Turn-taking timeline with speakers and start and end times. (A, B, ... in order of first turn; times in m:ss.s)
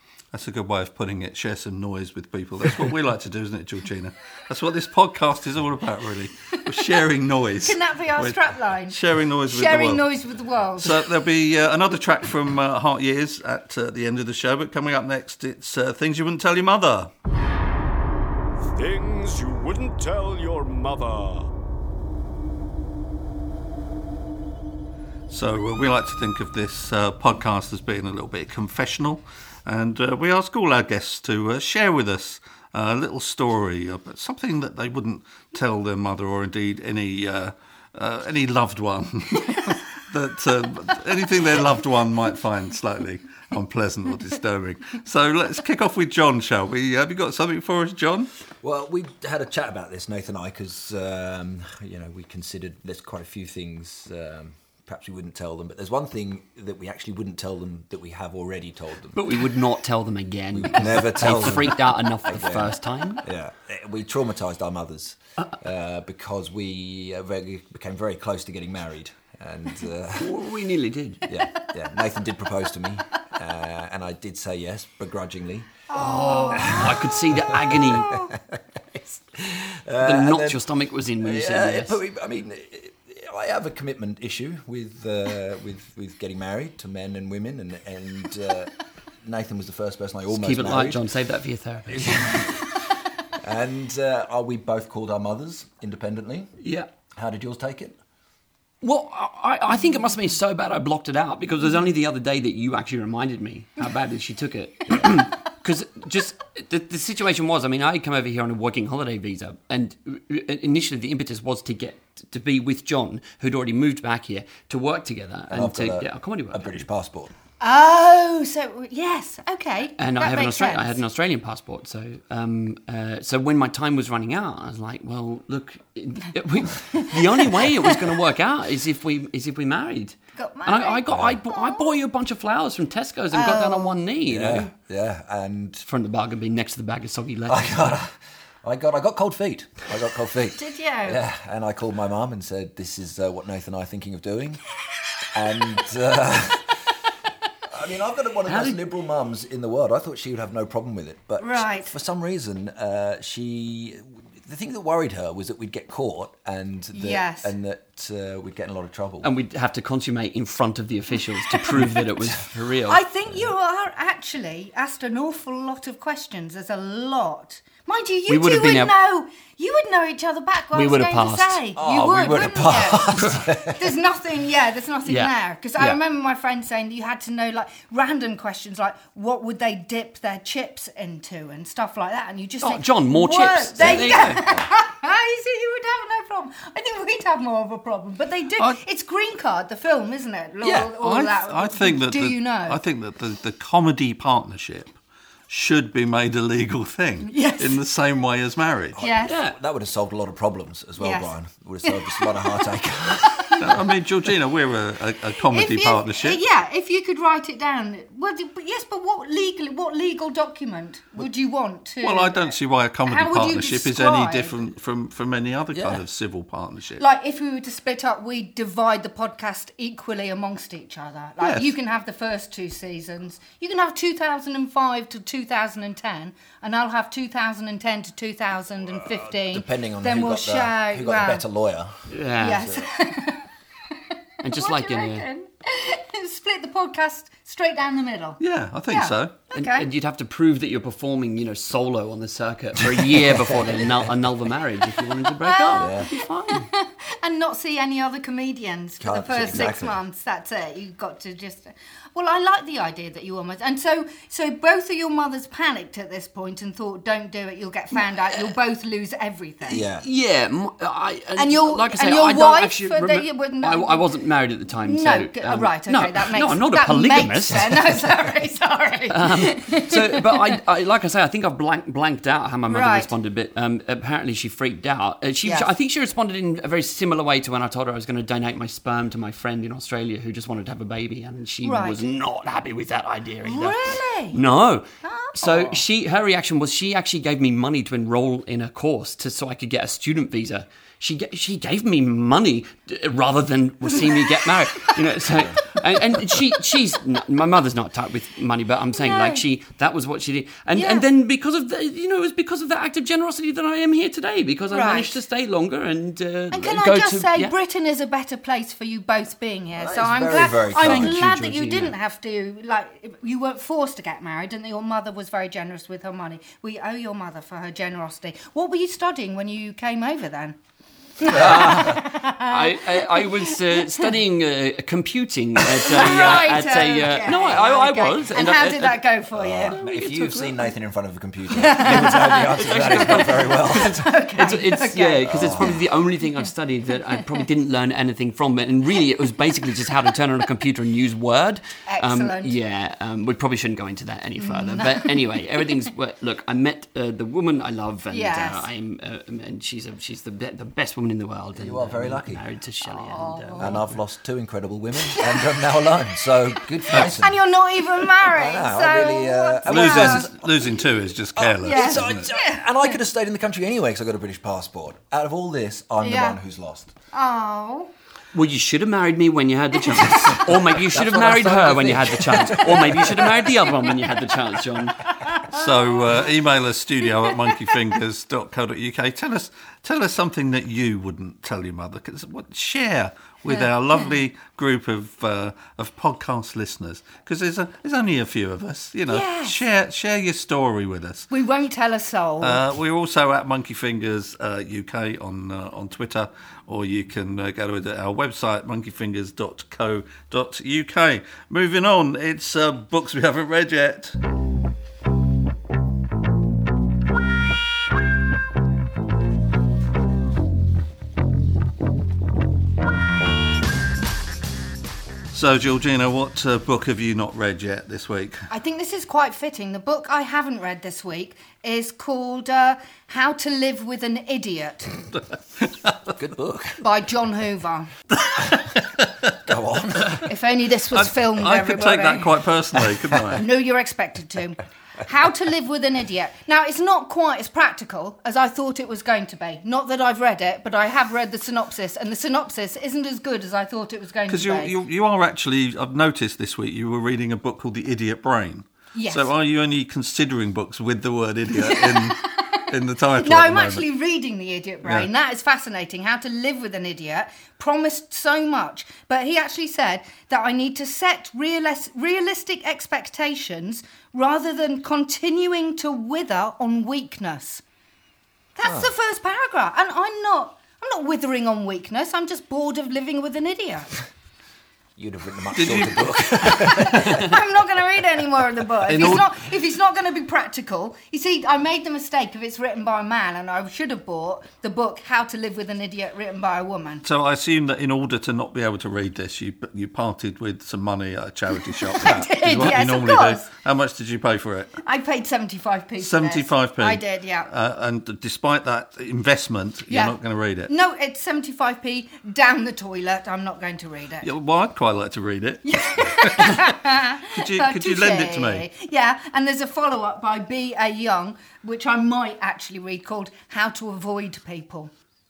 0:00.3-0:10.0 A
0:07.6-0:11.1 B
0:10.8-0:17.1 A
0:18.8-0:21.4 C
0:25.3-0:48.3 A
0:48.6-0:59.4 D
0:59.1-1:03.2 E
1:00.5-1:10.4 D
1:10.2-1:11.4 E
1:11.3-1:15.7 D
1:15.9-1:17.1 B
1:15.9-1:18.2 E
1:16.5-1:20.6 D
1:18.0-1:18.3 B
1:20.0-1:22.0 E
1:21.2-1:31.0 D
1:30.3-1:32.5 E
1:31.9-1:32.6 D
1:33.4-1:36.5 D
1:36.6-1:36.9 E
1:37.1-1:38.0 D
1:38.8-1:56.8 E
1:55.5-1:57.3 D
1:57.6-2:01.0 B
2:00.0-2:14.7 E
2:10.4-2:11.8 B
2:11.1-2:11.4 D
2:13.3-2:14.0 B
2:14.2-2:15.8 D
2:15.9-2:18.0 E
2:17.5-2:24.6 D
2:20.5-2:21.2 B
2:25.3-2:26.8 D
2:27.7-2:39.3 D
2:28.4-2:28.8 E
2:31.4-2:31.9 B
2:36.9-2:37.5 B
2:39.2-2:43.0 E
2:42.9-3:12.8 B
2:48.3-2:48.9 E
2:50.7-2:51.6 E
2:51.8-2:53.8 D
2:55.0-2:56.0 E
3:02.6-3:04.4 E
3:03.8-3:04.7 D
3:10.6-3:15.0 A
3:15.5-3:19.0 A
3:17.2-3:17.8 B
3:18.9-3:23.8 D
3:19.0-3:19.3 B
3:19.2-3:19.6 E
3:21.0-3:21.3 B
3:21.8-3:23.7 B
3:23.6-3:26.4 A
3:25.5-3:32.5 B
3:32.0-3:37.0 A
3:33.0-3:34.6 B
3:35.7-3:36.0 D
3:37.0-3:51.4 B
3:41.4-3:41.7 A
3:49.2-3:51.9 D
3:52.1-3:52.7 E
3:52.4-3:53.4 B
3:54.4-3:55.2 E
3:54.4-3:59.9 B
3:58.4-3:59.4 A
3:59.5-4:06.7 E
4:03.2-4:03.8 D
4:05.4-4:19.8 B
4:05.8-4:06.1 D
4:09.0-4:10.0 D
4:19.6-4:20.0 D
4:19.7-4:28.0 E
4:21.4-4:24.1 B
4:24.8-4:30.6 B
4:29.1-5:07.5 E
4:32.7-4:33.1 B
4:35.4-4:35.7 B
4:41.6-4:42.0 B
4:43.4-4:44.4 B
4:45.0-4:45.8 B
4:59.0-4:59.4 B
5:00.7-5:01.0 B
5:04.7-5:05.2 B
5:06.5-5:20.6 B
5:09.8-5:11.2 D
5:10.7-5:11.9 E
5:21.2-5:24.1 B
5:21.3-5:29.0 E
5:21.4-5:21.6 D
5:25.8-5:29.8 B
5:29.3-5:34.1 D
5:29.7-5:30.7 E
5:31.6-5:35.8 B
5:31.7-5:53.8 E
5:35.2-5:35.8 D
5:41.9-5:42.6 B
5:44.4-5:45.1 B
5:48.1-5:48.7 B
5:51.6-5:52.4 D
5:52.8-5:53.8 B
5:53.6-5:57.4 D
5:55.0-5:55.6 B
5:56.8-6:00.3 B
5:58.0-6:00.8 D
5:59.6-6:02.3 A
6:01.3-6:06.9 D
6:01.6-6:02.9 B
6:06.0-6:06.4 B
6:07.1-6:07.9 B
6:08.3-6:15.1 E
6:10.7-6:13.5 D
6:15.2-6:15.6 B
6:15.5-6:31.3 A
6:23.5-6:24.1 B
6:29.1-6:29.6 B
6:31.3-6:32.6 B
6:32.4-6:44.2 A
6:55.3-6:58.5 A
6:58.5-7:05.0 B
7:05.6-7:06.0 A
7:06.1-7:06.8 D
7:06.8-7:07.9 B
7:08.1-7:09.3 A
7:09.4-7:10.3 D
7:10.2-7:12.3 B
7:10.9-7:13.4 A
7:13.3-7:24.8 B
7:24.3-7:33.8 A
7:28.9-7:29.3 B
7:31.6-7:47.6 B
7:48.6-7:53.9 B
7:48.6-7:48.9 D
7:55.0-7:57.4 D
7:55.5-7:56.7 A
7:56.4-8:07.0 B
7:58.8-7:59.3 A
8:07.0-8:14.8 A
8:11.7-8:13.5 B
8:12.0-8:12.6 D
8:14.8-8:17.5 B
8:16.0-8:20.7 A
8:19.9-8:20.2 B
8:20.7-8:24.3 B
8:24.2-8:28.6 A
8:25.6-8:34.9 B